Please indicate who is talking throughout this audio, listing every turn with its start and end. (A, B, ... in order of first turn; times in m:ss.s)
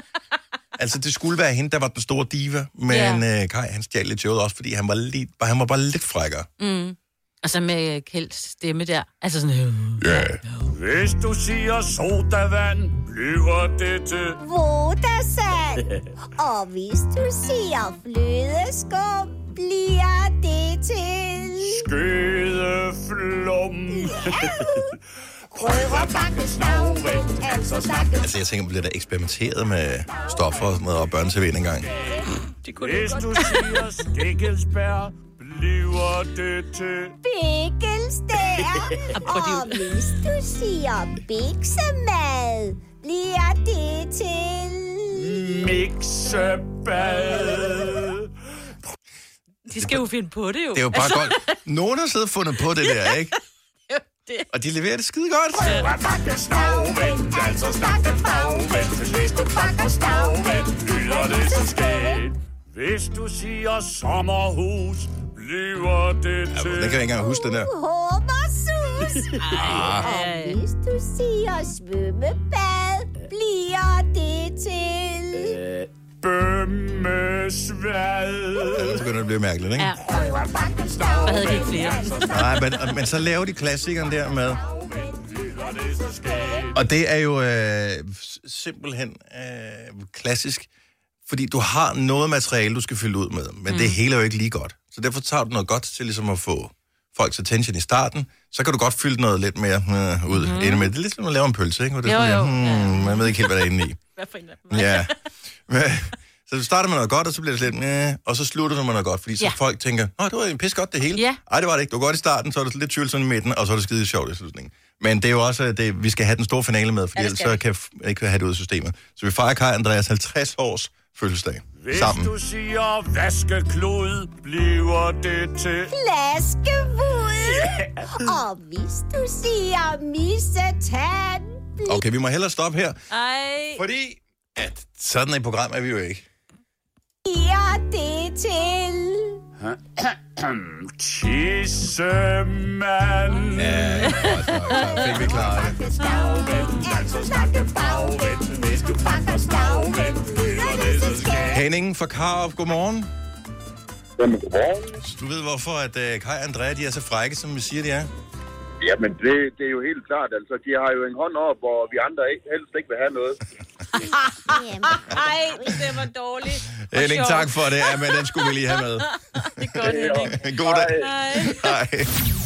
0:00.8-0:06.5 A
0:02.9-0:03.2 B
0:06.6-0:10.3 B
0:10.0-0:10.4 A
0:10.7-0:14.4 C
0:14.4-0:15.8 D
0:16.4-0:21.8 D
0:21.6-0:24.7 C
0:23.9-0:24.9 D
0:25.6-0:28.2 C
0:25.6-0:28.3 D
0:28.2-0:31.9 A
0:31.9-0:37.2 C
0:32.7-0:33.4 B
0:37.2-0:45.7 D
0:39.1-0:39.8 B
0:45.1-0:48.3 C
0:49.7-0:51.5 B
0:49.8-0:50.0 A
0:50.7-0:53.3 A
0:53.9-0:54.5 B
0:54.5-0:55.8 A
0:55.6-1:07.0 C
0:56.1-1:01.9 D
1:06.5-1:07.7 A
1:07.2-1:15.6 D
1:09.4-1:10.6 B
1:09.5-1:10.1 A
1:16.2-1:19.0 C
1:18.7-1:20.0 A
1:19.8-1:20.0 B
1:20.1-1:22.4 C
1:20.1-1:22.3 D
1:21.2-1:22.1 B
1:22.3-1:24.6 A
1:24.6-1:26.8 C
1:26.7-1:30.7 A
1:31.3-1:44.0 A
1:33.7-1:34.0 B
1:40.3-1:40.9 B
1:42.0-1:43.5 B
1:44.2-1:45.1 B
1:44.7-1:45.1 A
1:45.7-2:02.3 A
1:57.2-1:57.6 B
2:01.8-2:05.9 C
2:05.9-2:12.0 D
2:07.6-2:07.8 C
2:11.8-2:13.0 A
2:13.1-2:13.8 B
2:13.8-2:16.2 A
2:17.2-2:19.4 D
2:19.6-2:24.1 C
2:23.6-2:25.8 A
2:24.0-2:24.7 B
2:25.0-2:31.6 C
2:25.5-2:31.5 D
2:31.5-2:33.1 A
2:34.2-2:35.0 E
2:35.0-2:38.1 A
2:38.8-2:43.4 E
2:44.0-2:50.4 B
2:44.5-2:45.8 D
2:46.9-2:52.1 A
2:49.8-2:51.1 E
2:51.0-2:51.7 B